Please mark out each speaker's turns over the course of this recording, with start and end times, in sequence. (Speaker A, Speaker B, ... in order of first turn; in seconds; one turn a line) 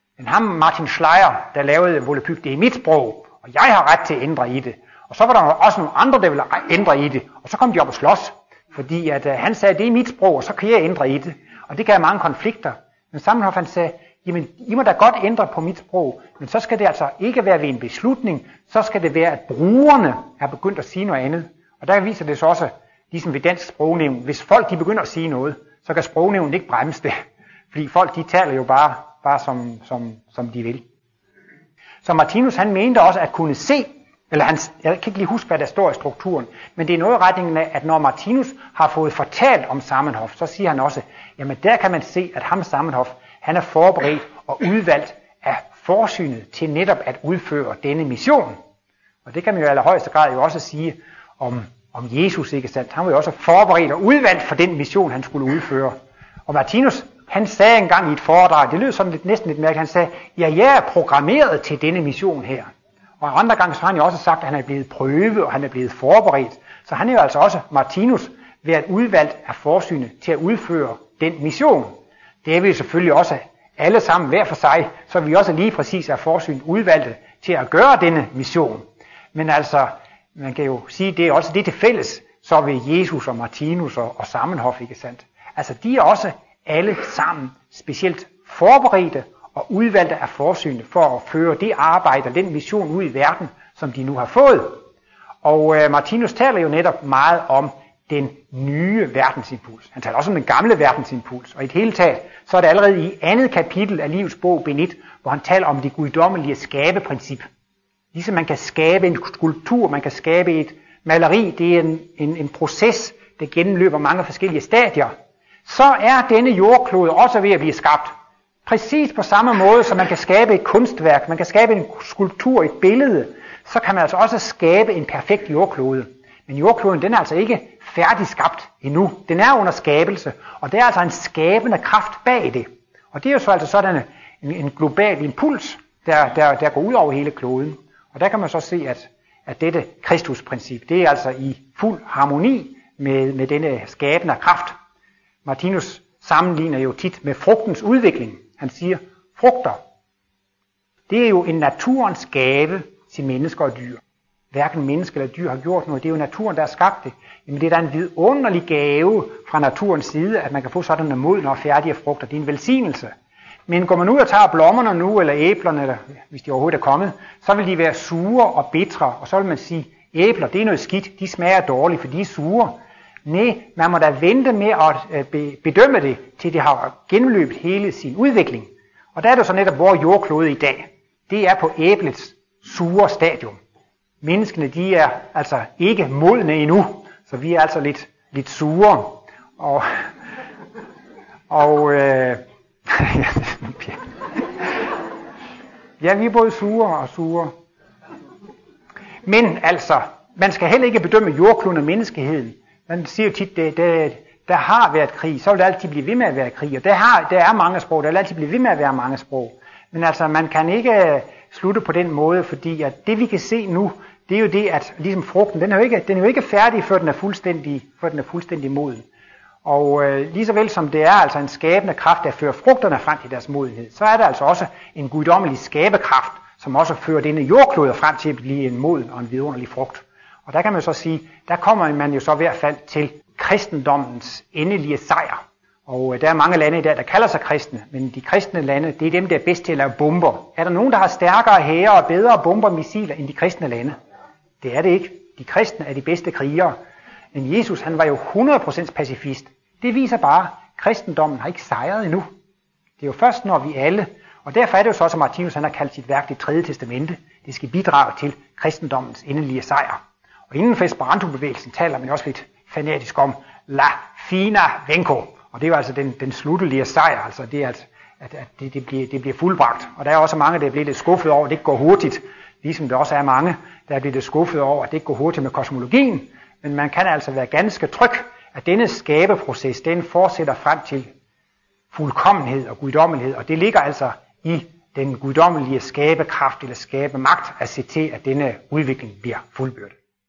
Speaker A: 0.2-27.2
Speaker A: 27.7-30.8
Speaker A: 32.0-48.6
Speaker A: 49.2-62.7
Speaker A: 63.2-94.8
Speaker A: 95.4-107.5
Speaker A: 108.1-115.1
Speaker A: 115.6-118.1
Speaker A: 118.6-144.8
Speaker A: 145.4-149.8
Speaker A: 151.1-154.0
Speaker A: 154.5-163.1
Speaker A: 163.7-183.6
Speaker A: 184.2-190.1
Speaker A: 191.5-194.7
Speaker A: 196.0-197.6
Speaker A: 199.2-219.0
Speaker A: 219.6-243.9
Speaker A: 244.6-246.8
Speaker A: 247.3-252.3
Speaker A: 253.0-260.0
Speaker A: 260.5-281.1
Speaker A: 281.9-289.9